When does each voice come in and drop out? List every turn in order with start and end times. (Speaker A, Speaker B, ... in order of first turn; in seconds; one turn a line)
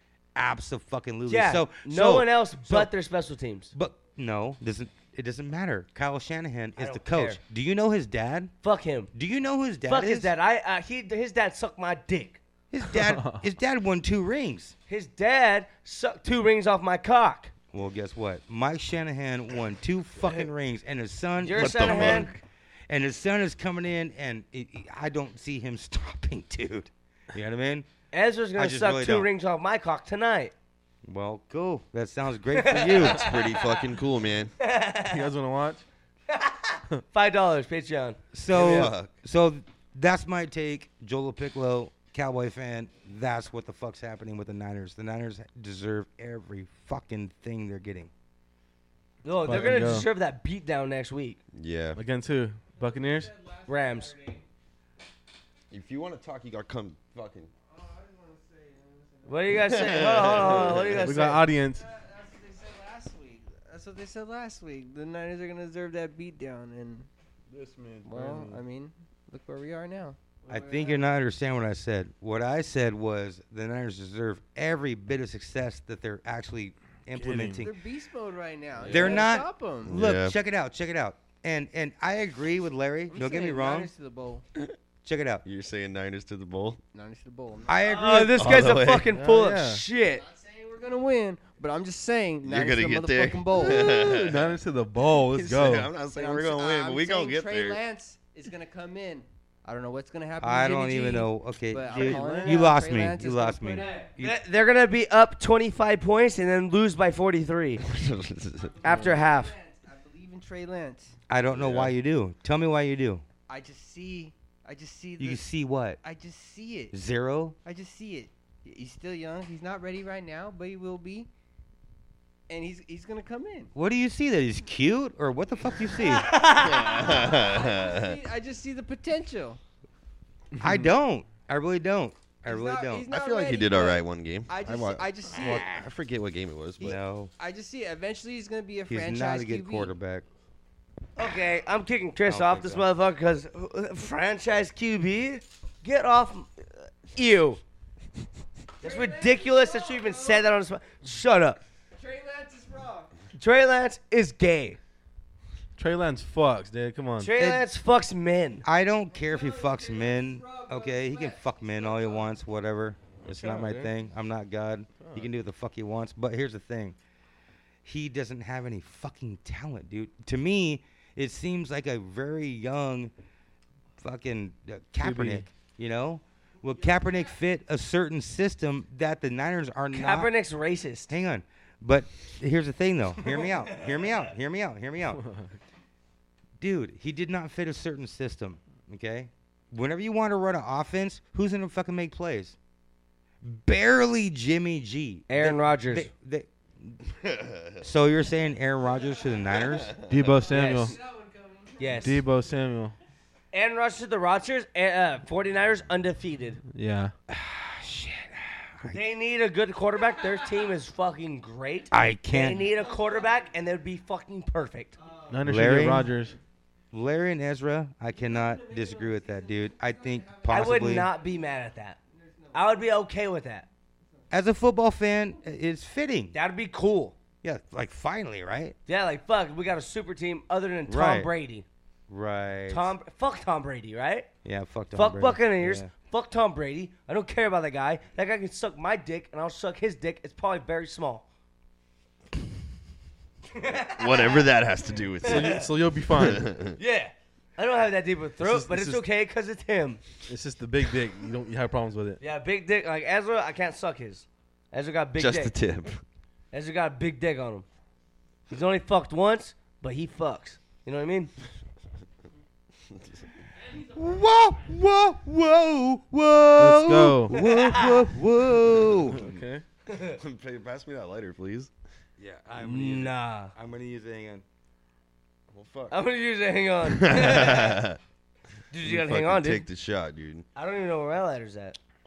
Speaker A: 0.3-2.9
Speaker B: 1.3-3.7
Speaker A: 3.7-8.5
Speaker B: 6.8-7.4
Speaker B: 8.6-9.1
Speaker A: 9.1-10.3
Speaker B: 9.8-12.4
Speaker A: 12.7-14.7
Speaker C: 13.0-13.4
Speaker B: 14.9-17.5
Speaker A: 17.7-22.3
Speaker B: 21.4-22.3
Speaker D: 21.6-22.3
Speaker A: 22.9-27.9
Speaker B: 28.1-30.5
Speaker A: 28.6-29.3
Speaker A: 31.1-33.3
Speaker B: 32.5-33.8
Speaker D: 32.7-34.5
Speaker B: 34.6-35.3
Speaker C: 35.0-35.8
Speaker B: 36.3-38.9
Speaker A: 38.3-48.1
Speaker D: 38.5-39.1
Speaker B: 49.2-51.4
Speaker C: 49.4-50.1
Speaker D: 51.5-52.0
Speaker C: 51.9-53.3
Speaker E: 52.9-54.4
Speaker B: 53.6-54.2
Speaker D: 55.7-57.5
Speaker E: 57.7-61.0
Speaker B: 59.2-61.4
Speaker D: 59.5-61.0
Speaker C: 61.0-61.8
Speaker E: 61.7-67.1
Speaker C: 67.5-68.6
Speaker E: 68.0-71.1
Speaker A: 70.5-77.8
Speaker C: 77.1-77.6
Speaker E: 77.6-80.0
Speaker C: 78.8-79.2
Speaker A: 78.8-83.9
Speaker D: 79.8-80.3
Speaker E: 83.1-84.4
Speaker A: 85.0-85.4
Speaker D: 85.4-86.8
Speaker E: 86.9-87.9
Speaker A: 87.7-88.6
Speaker B: 87.8-90.2
Speaker D: 88.3-89.1
Speaker C: 89.1-89.8
Speaker E: 90.1-93.9
Speaker D: 92.4-94.5
Speaker C: 93.6-95.9
Speaker D: 95.3-97.8
Speaker E: 96.0-104.1
Speaker A: 100.4-104.4
Speaker C: 101.9-102.7
Speaker B: 103.8-107.8
Speaker D: 107.8-108.9
Speaker E: 108.6-111.1
Speaker B: 108.8-109.5
Speaker A: 111.3-113.2
Speaker D: 111.5-111.9
Speaker E: 113.5-115.5
Speaker A: 115.2-116.0
Speaker E: 116.0-116.9
Speaker A: 116.9-117.5
Speaker E: 117.6-121.3
Speaker E: 122.5-123.7
Speaker A: 123.7-126.3
Speaker B: 126.0-127.2
Speaker D: 126.5-128.2
Speaker E: 126.9-129.6
Speaker A: 130.6-133.1
Speaker E: 132.4-135.8
Speaker D: 133.1-137.0
Speaker A: 136.8-137.3
Speaker E: 137.4-139.9
Speaker A: 138.9-140.2
Speaker B: 141.2-147.6
Speaker A: 142.2-142.9
Speaker E: 148.8-150.4
Speaker B: 148.8-151.6
Speaker E: 151.9-153.1
Speaker B: 153.3-154.8
Speaker C: 155.8-157.3
Speaker B: 157.2-158.6
Speaker A: 157.3-157.7
Speaker A: 158.6-166.9
Speaker E: 159.2-162.3
Speaker C: 163.3-163.9
Speaker C: 165.0-165.3
Speaker A: 167.8-173.1
Speaker A: 174.0-180.3
Speaker C: 175.0-175.4
Speaker B: 179.9-181.1
Speaker A: 181.1-185.2
Speaker C: 185.1-185.5
Speaker A: 186.6-192.6
Speaker A: 193.4-197.1
Speaker B: 195.3-196.1
Speaker D: 197.2-197.8
Speaker A: 197.8-199.9
Speaker D: 199.8-200.1
Speaker C: 200.1-200.9
Speaker B: 200.5-200.9
Speaker E: 200.7-202.1
Speaker B: 201.8-202.2
Speaker C: 202.0-202.9
Speaker B: 203.5-206.6
Speaker C: 206.7-207.1
Speaker A: 207.3-209.0
Speaker B: 208.8-215.0
Speaker A: 211.9-212.7
Speaker E: 212.8-213.3
Speaker E: 215.0-215.3
Speaker C: 215.3-216.4
Speaker A: 215.4-216.1
Speaker A: 216.9-221.1
Speaker E: 218.2-221.2
Speaker B: 220.5-222.0
Speaker E: 222.1-222.9
Speaker B: 222.5-223.7
Speaker A: 224.3-226.3
Speaker B: 226.3-227.2
Speaker A: 227.4-228.8
Speaker B: 228.9-231.7
Speaker A: 230.9-231.3
Speaker A: 232.1-232.9
Speaker B: 232.7-234.3
Speaker A: 234.4-235.9
Speaker B: 234.9-241.2
Speaker B: 243.5-244.5
Speaker D: 243.9-246.8
Speaker C: 245.2-246.5
Speaker B: 245.2-245.7
Speaker B: 246.8-250.0
Speaker C: 248.4-249.0
Speaker C: 250.3-252.2
Speaker B: 252.2-255.5
Speaker D: 255.2-256.0
Speaker B: 256.5-257.6
Speaker B: 258.5-261.3
Speaker A: 263.9-269.3
Speaker C: 266.6-267.3
Speaker B: 267.3-268.1
Speaker C: 269.1-269.6
Speaker B: 269.9-270.2
Speaker D: 270.1-271.7
Speaker A: 272.2-274.4
Speaker B: 272.6-273.5
Speaker D: 275.5-275.9
Speaker B: 275.9-277.8
Speaker D: 276.9-278.0
Speaker B: 278.7-279.6
Speaker D: 278.8-280.4
Speaker B: 280.5-281.8